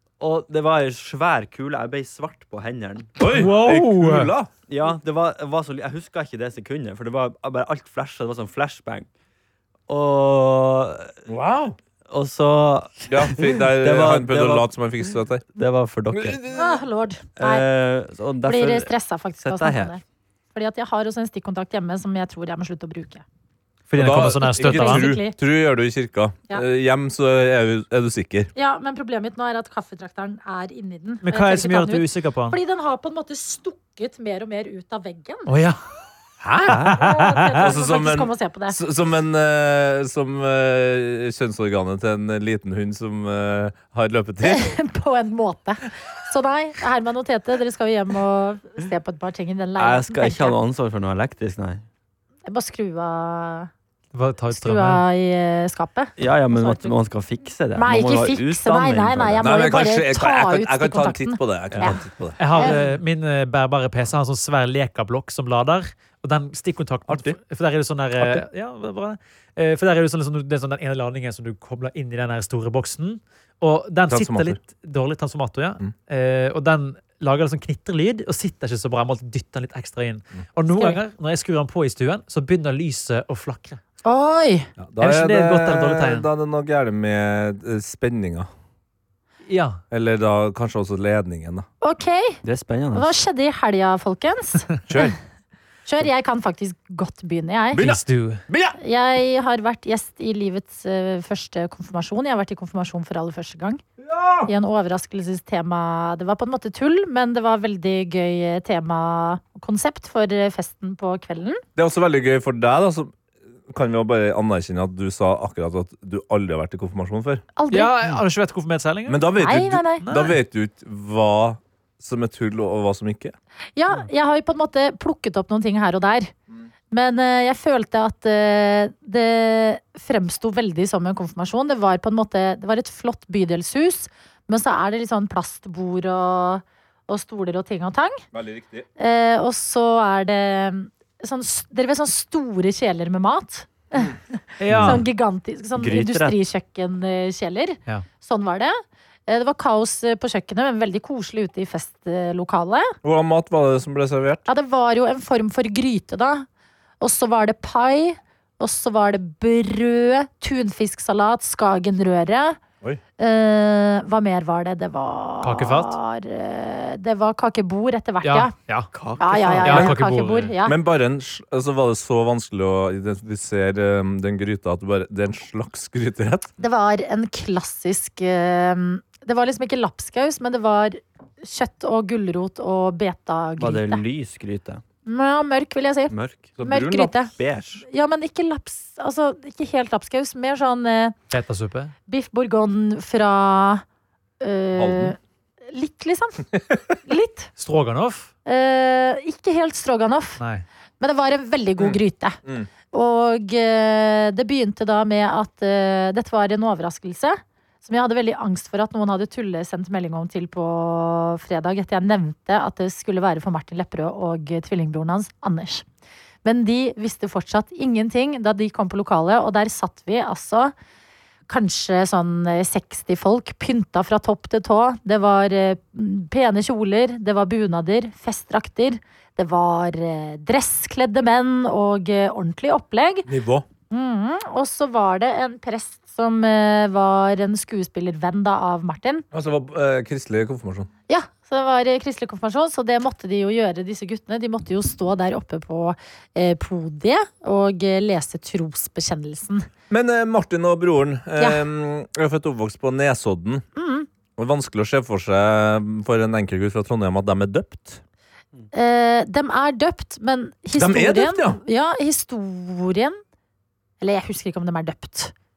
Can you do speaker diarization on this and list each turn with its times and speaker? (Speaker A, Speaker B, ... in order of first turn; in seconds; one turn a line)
Speaker A: 0.2-3.1
Speaker B: 3.2-4.5
Speaker C: 3.2-4.3
Speaker A: 4.7-9.1
Speaker A: 9.9-11.1
Speaker B: 11.3-11.8
Speaker A: 12.1-14.7
Speaker B: 13.1-15.4
Speaker A: 15.5-16.4
Speaker B: 16.1-16.6
Speaker D: 16.5-17.7
Speaker A: 17.4-19.9
Speaker D: 18.4-20.0
Speaker D: 20.5-23.2
Speaker C: 23.9-25.1
Speaker B: 23.9-28.5
Speaker D: 24.6-25.4
Speaker D: 28.5-35.5
Speaker C: 31.2-32.6
Speaker C: 35.5-35.8
Speaker B: 36.4-37.0
Speaker C: 36.7-37.4
Speaker D: 36.8-38.8
Speaker B: 37.6-44.7
Speaker D: 44.4-50.5
Speaker A: 49.8-51.8
Speaker D: 52.5-53.7
Speaker C: 54.1-55.0
Speaker D: 54.5-56.9
Speaker A: 56.2-59.5
Speaker D: 57.8-62.0
Speaker B: 59.4-62.4
Speaker C: 62.4-83.8
Speaker B: 67.1-67.4
Speaker B: 74.1-74.6
Speaker D: 80.7-81.0
Speaker D: 84.0-84.7
Speaker B: 84.8-88.5
Speaker C: 85.0-86.3
Speaker C: 89.5-89.8
Speaker B: 89.9-91.7
Speaker D: 91.8-92.4
Speaker A: 92.4-93.1
Speaker D: 92.9-95.1
Speaker B: 94.9-95.2
Speaker D: 95.8-97.8
Speaker B: 97.7-98.8
Speaker C: 97.7-98.4
Speaker D: 98.8-103.8
Speaker B: 104.0-104.5
Speaker D: 104.5-111.6
Speaker B: 111.8-113.1
Speaker B: 113.7-117.4
Speaker D: 117.5-118.0
Speaker C: 117.7-119.2
Speaker B: 119.1-123.3
Speaker D: 119.3-120.0
Speaker C: 120.0-120.4
Speaker D: 123.8-126.3
Speaker D: 126.9-138.2
Speaker B: 138.3-138.8
Speaker D: 139.0-152.9
Speaker C: 144.6-145.0
Speaker B: 144.7-145.0
Speaker A: 144.7-145.0
Speaker A: 145.8-146.4
Speaker B: 153.0-154.5
Speaker D: 154.5-156.5
Speaker D: 157.0-162.6
Speaker D: 163.2-168.5
Speaker C: 165.4-165.9
Speaker C: 168.2-168.9
Speaker A: 168.9-169.9
Speaker D: 169.2-170.8
Speaker C: 169.6-170.5
Speaker B: 169.7-169.9
Speaker B: 170.6-176.5
Speaker D: 176.6-184.0
Speaker A: 183.6-184.8
Speaker D: 185.1-187.3
Speaker A: 186.1-186.5
Speaker B: 186.6-187.2
Speaker A: 187.3-187.8
Speaker D: 187.8-191.1
Speaker C: 191.3-191.9
Speaker D: 192.1-193.8
Speaker D: 194.4-195.2
Speaker B: 194.7-195.2
Speaker D: 195.7-196.4
Speaker D: 197.1-197.5
Speaker C: 197.6-198.3
Speaker D: 198.4-200.4
Speaker C: 200.4-200.6
Speaker D: 201.0-202.4
Speaker B: 201.8-202.7
Speaker D: 202.9-215.8
Speaker D: 216.4-220.7
Speaker D: 221.5-233.3
Speaker B: 233.2-233.7
Speaker D: 233.9-239.2
Speaker B: 239.3-240.9
Speaker D: 241.1-249.7
Speaker B: 249.9-253.6
Speaker D: 251.4-251.6
Speaker D: 253.8-254.1
Speaker B: 254.4-258.0
Speaker D: 258.7-263.2
Speaker B: 260.7-261.6
Speaker D: 264.0-265.3